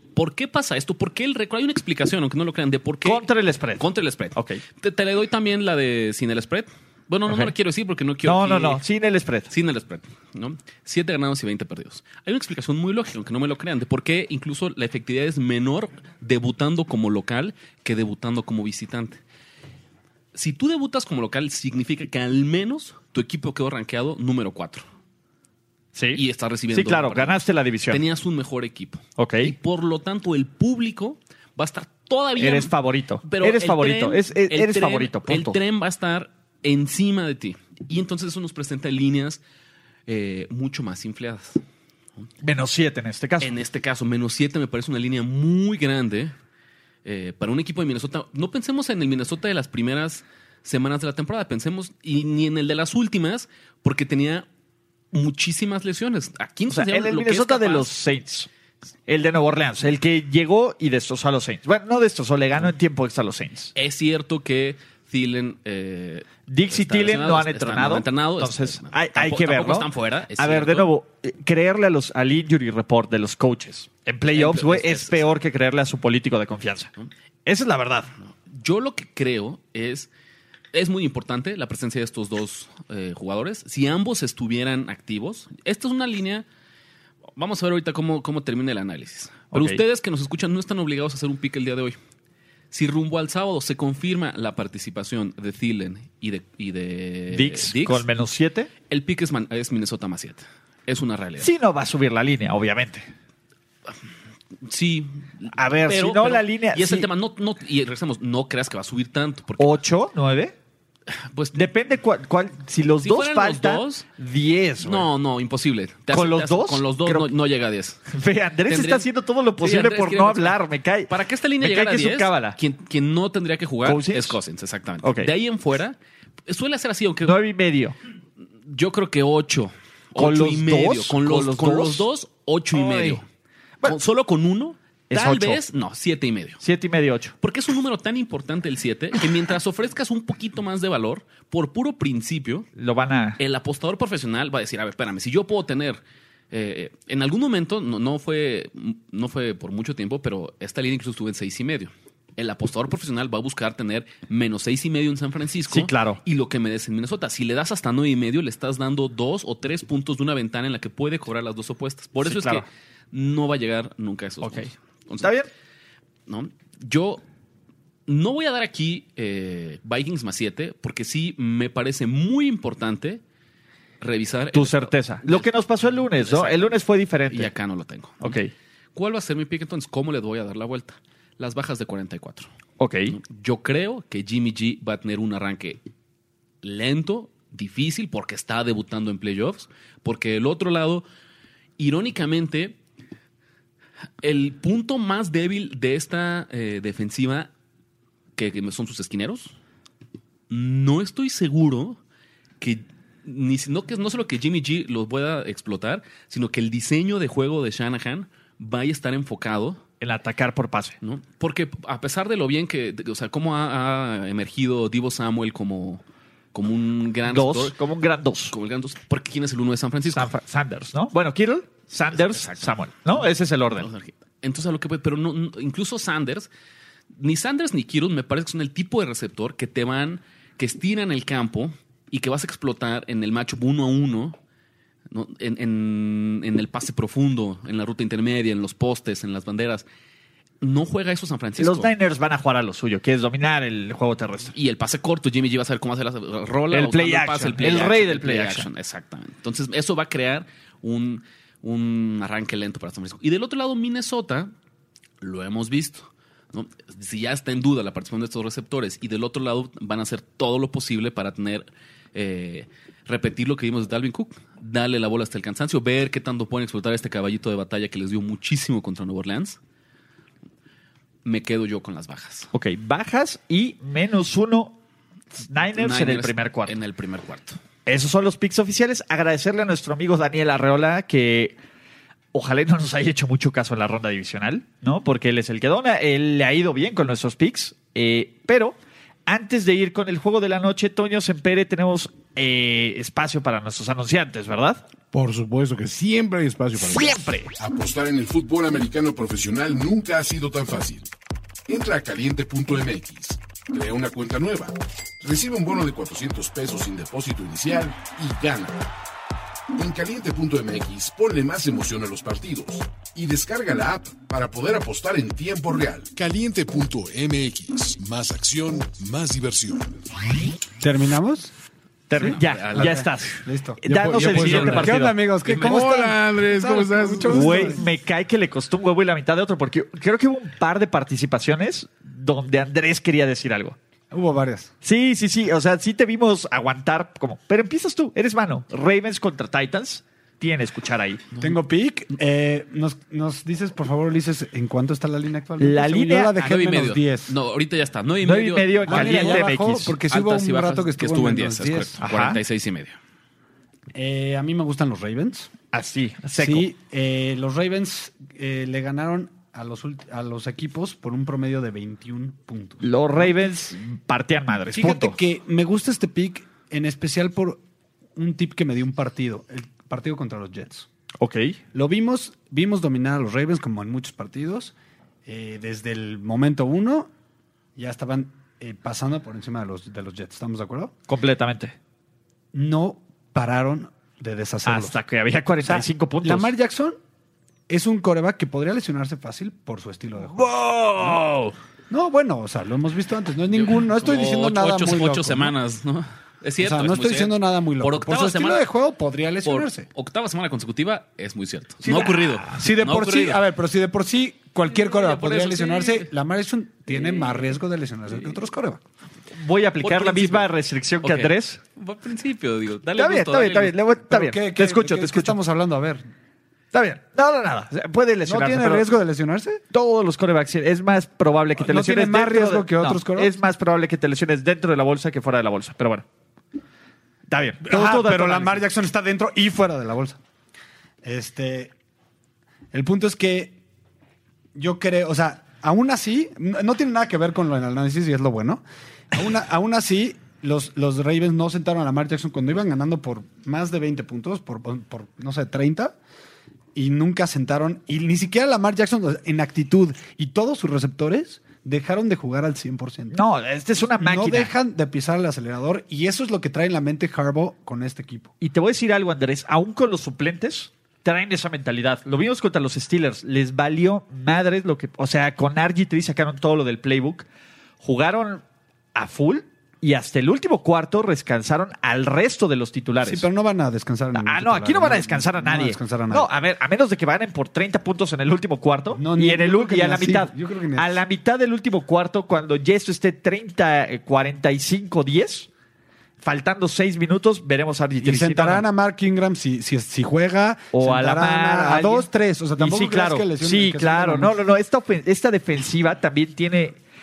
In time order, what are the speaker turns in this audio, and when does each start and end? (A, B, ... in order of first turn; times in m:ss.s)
0:00.2-0:03.2 A
0:03.0-0:04.6 B
0:03.8-0:08.8 A
0:08.2-0:09.5 B
0:09.5-0:19.2 A
0:20.3-0:24.8 A
0:25.9-0:28.0 B
0:26.2-0:32.7 A
0:29.2-0:29.5 B
0:32.4-0:35.6 B
0:33.2-0:39.4 A
0:40.1-0:41.6 A
0:42.4-0:43.5 B
0:43.4-0:46.3 A
0:47.0-0:54.5 A
0:55.1-0:57.9 A
0:56.7-0:58.5 B
0:59.1-1:03.7 B
1:03.8-1:10.9 A
1:06.5-1:16.9 B
1:14.3-1:15.2 A
1:17.5-1:18.1 B
1:18.5-1:20.1 A
1:20.7-1:26.5 A
1:27.4-1:32.0 A
1:29.5-1:29.8 B
1:32.7-1:38.0 A
1:37.3-1:38.7 B
1:38.9-1:41.5 A
1:41.4-1:43.1 B
1:44.6-1:49.8 A
1:45.5-1:47.1 B
1:49.6-1:50.5 B
1:51.2-1:51.7 A
1:51.5-1:55.1 B
1:53.0-1:54.1 A
1:54.8-1:58.0 A
1:56.1-1:57.3 B
1:58.1-2:02.6 B
1:58.7-1:59.1 A
1:59.6-2:06.0 A
2:03.8-2:04.4 B
2:05.0-2:05.3 B
2:06.5-2:07.4 A
2:07.2-2:08.0 B
2:08.7-2:13.2 A
2:10.2-2:12.1 B
2:12.7-2:13.2 B
2:13.8-2:16.6 A
2:15.1-2:15.6 B
2:16.6-2:17.4 B
2:17.4-2:22.7 A
2:22.8-2:23.4 B
2:23.4-2:45.3 A
2:35.7-2:36.2 B
2:42.2-2:42.6 B
2:44.4-2:44.7 B
2:45.2-2:45.5 B
2:46.3-2:47.2 A
2:48.1-2:53.2 A
2:54.0-2:55.5 A
2:54.5-2:57.5 B
2:56.2-2:58.4 A
2:58.2-2:58.5 B
2:59.0-3:02.5 A
3:02.8-3:03.2 B
3:03.1-3:05.8 A
3:06.6-3:11.0 A
3:11.8-3:12.8 A
3:14.2-3:17.5 A
3:18.4-3:19.6 A
3:20.5-3:22.0 A
3:22.6-3:29.8 A
3:30.0-3:31.0 B
3:31.0-3:36.0 A
3:36.5-3:37.8 A
3:37.3-3:38.5 B
3:38.5-3:40.3 A
3:40.1-3:43.9 B
3:42.1-3:42.8 A
3:43.7-3:46.5 A
3:47.2-3:54.4 A
3:55.1-3:59.8 A
4:00.6-4:01.9 A
4:01.6-4:04.5 B
4:04.5-4:14.5 A
4:06.7-4:08.7 B
4:15.2-4:29.6 A
4:31.2-4:32.5 A
4:32.5-4:34.8 B
4:35.4-4:36.8 B
4:35.8-4:37.6 A
4:37.9-4:41.6 B
4:42.3-4:48.8 B
4:49.3-4:54.8 B
4:55.1-4:57.2 C
4:56.9-4:57.5 B
4:57.6-5:01.1 D
5:01.7-5:08.9 D
5:09.8-5:20.1 D
5:20.8-5:21.5 E
5:22.1-5:25.2 B
5:22.1-5:27.8 E
5:22.2-5:23.2 A
5:23.9-5:25.0 C
5:25.5-5:25.8 A
5:25.6-5:27.8 C
5:27.3-5:33.8 B
5:34.1-5:34.7 E
5:34.8-5:41.2 B
5:41.4-5:47.4 E
5:45.6-5:46.3 B
5:46.4-5:49.5 A
5:48.2-5:50.0 B
5:48.9-5:52.0 E
5:50.1-5:53.0 A
5:52.0-5:52.4 B
5:54.0-5:55.5 E
5:55.7-5:56.7 B
5:56.4-6:03.3 E
6:02.8-6:05.2 B
6:04.8-6:07.6 E
6:08.2-6:10.9 E
6:11.2-6:11.6 B
6:11.7-6:14.7 E
6:15.2-6:17.1 E
6:17.8-6:20.9 E
6:21.1-6:21.8 B
6:22.5-6:25.0 E
6:24.6-6:26.5 B
6:25.6-6:27.0 E
6:27.7-6:30.5 E
6:30.3-6:31.5 B
6:31.9-6:35.5 E
6:33.5-6:38.7 A
6:36.6-6:39.9 E
6:39.4-6:43.4 A
6:41.8-6:42.4 B
6:41.9-6:48.8 E
6:44.6-6:46.1 A
6:49.4-6:51.6 B
6:49.8-6:50.5 A
6:51.0-6:53.8 A
6:53.0-6:55.4 B
6:54.1-6:56.1 E
6:56.7-6:58.9 B
6:58.2-6:59.6 E
6:59.7-7:06.0 B
7:01.6-7:03.4 E
7:07.3-7:08.7 B
7:07.6-7:10.2 E
7:11.0-7:11.7 E
7:12.7-7:13.6 E
7:14.6-7:26.0 E
7:26.8-7:33.2 E
7:33.1-7:34.5 B
7:34.0-7:38.3 E
7:38.4-7:47.3 B
7:47.8-7:48.4 B
7:48.9-7:53.2 B
7:53.0-7:56.3 E
7:54.1-8:05.5 B
7:58.9-8:01.0 E
8:06.2-8:08.6 B
8:08.0-8:14.4 E
8:10.7-8:16.8 B